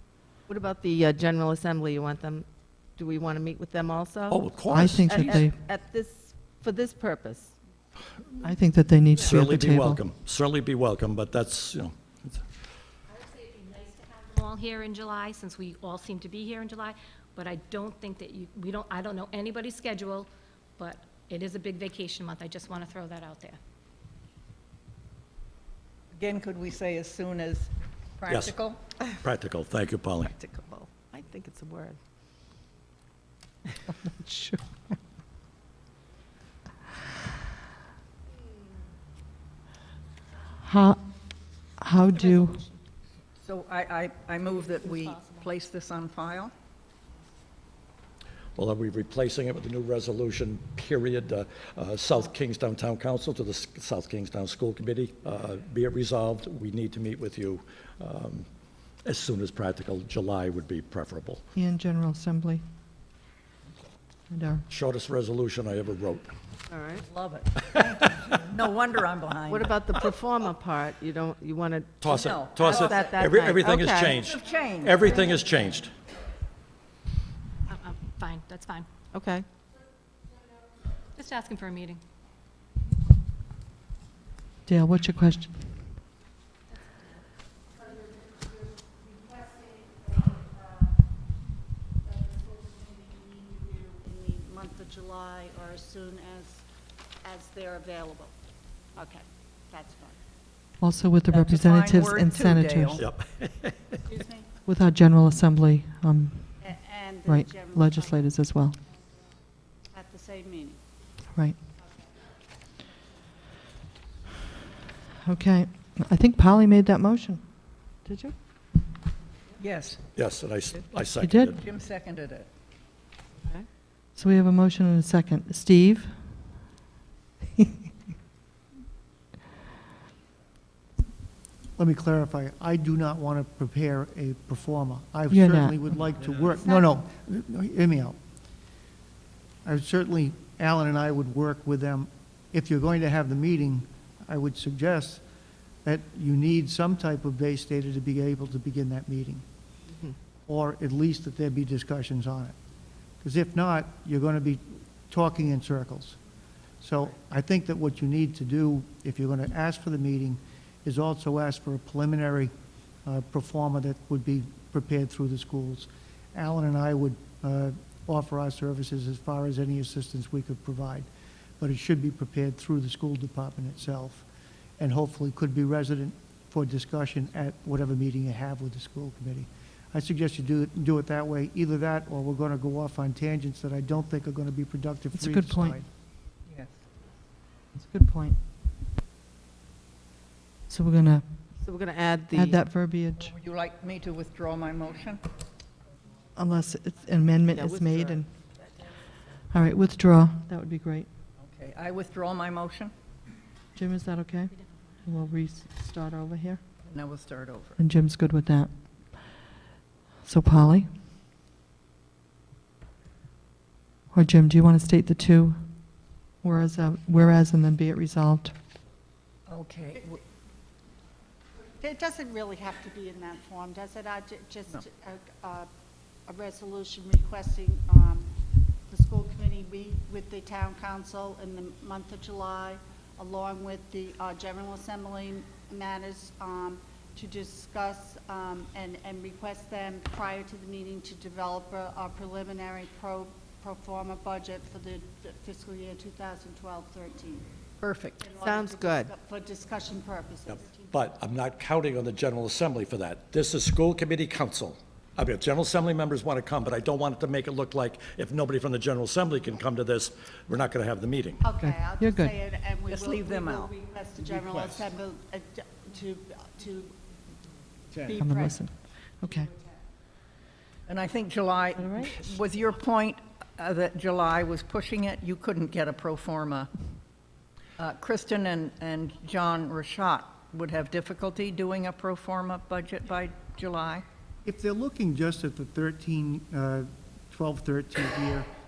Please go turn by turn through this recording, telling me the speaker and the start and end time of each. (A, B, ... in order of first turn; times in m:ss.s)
0:00.5-0:07.6 A
0:04.3-0:05.4 B
0:04.7-0:05.6 C
0:08.4-0:10.0 C
0:09.2-0:12.5 B
0:13.1-0:23.6 D
0:26.1-0:28.8 E
0:28.3-0:28.6 B
0:29.2-0:30.3 B
0:30.2-0:32.0 A
0:34.2-0:34.6 C
0:40.6-0:41.0 C
0:41.8-0:42.6 C
0:42.1-0:42.8 D
0:43.4-0:46.5 E
0:44.7-0:45.4 D
0:48.6-0:58.5 B
0:59.0-1:01.4 B
1:01.6-1:02.6 C
1:04.3-1:04.7 C
1:04.7-1:06.3 B
1:06.7-1:07.0 A
1:07.0-1:09.8 E
1:07.6-1:08.3 B
1:09.5-1:14.2 A
1:12.0-1:15.9 B
1:12.1-1:13.2 E
1:14.2-1:15.4 E
1:17.7-1:18.9 D
1:19.1-1:19.5 A
1:21.2-1:22.0 D
1:24.7-1:25.8 C
1:26.7-1:27.2 D
1:32.7-1:36.6 F
1:37.2-1:38.3 F
1:39.0-1:40.2 F
1:40.8-1:43.0 C
1:41.3-1:43.0 E
1:43.0-1:44.1 B
1:44.0-1:44.5 F
1:44.7-1:46.7 C
1:46.6-1:48.2 F
1:47.3-1:48.8 C
1:49.9-1:50.8 F
1:55.2-1:57.7 C
1:58.0-1:58.4 A
1:59.6-2:00.0 E
2:00.2-2:01.6 B
2:01.2-2:01.6 C
2:01.5-2:02.5 E
2:04.2-2:06.5 C
2:11.8-2:18.2 G
2:15.3-2:15.8 C
2:16.6-2:16.9 F
2:19.6-2:25.2 G
2:25.8-2:29.4 G
2:30.5-2:32.6 G
2:33.2-2:36.2 G
2:36.8-2:42.5 G
2:43.1-2:51.1 G
2:51.6-2:54.3 G
2:54.8-3:05.9 G
3:05.1-3:05.8 C
3:06.5-3:06.8 E
3:07.8-3:08.4 C
3:10.7-3:11.4 C
3:11.6-3:12.7 A
3:12.3-3:13.3 C
3:13.2-3:15.2 E
3:16.4-3:18.3 C
3:17.5-3:18.3 A
3:19.5-3:21.1 C
3:21.4-3:22.9 E
3:23.8-3:26.6 C
3:26.8-3:27.8 E
3:27.8-3:29.4 C
3:30.2-3:30.9 C
3:34.1-3:35.6 C
3:36.4-3:38.6 C
3:39.5-3:40.2 E
3:41.8-3:45.7 F
3:46.3-3:48.3 F
3:48.9-4:07.5 F
4:07.8-4:08.3 E
4:08.2-4:10.9 F
4:08.4-4:09.1 A
4:10.5-4:21.5 B
4:21.4-4:27.0 F
4:21.6-4:22.4 C
4:22.9-4:23.7 E
4:27.9-4:29.8 F
4:28.2-4:29.5 C
4:30.9-4:36.7 E
4:31.8-4:32.2 C
4:37.8-4:44.0 E
4:44.4-4:48.5 G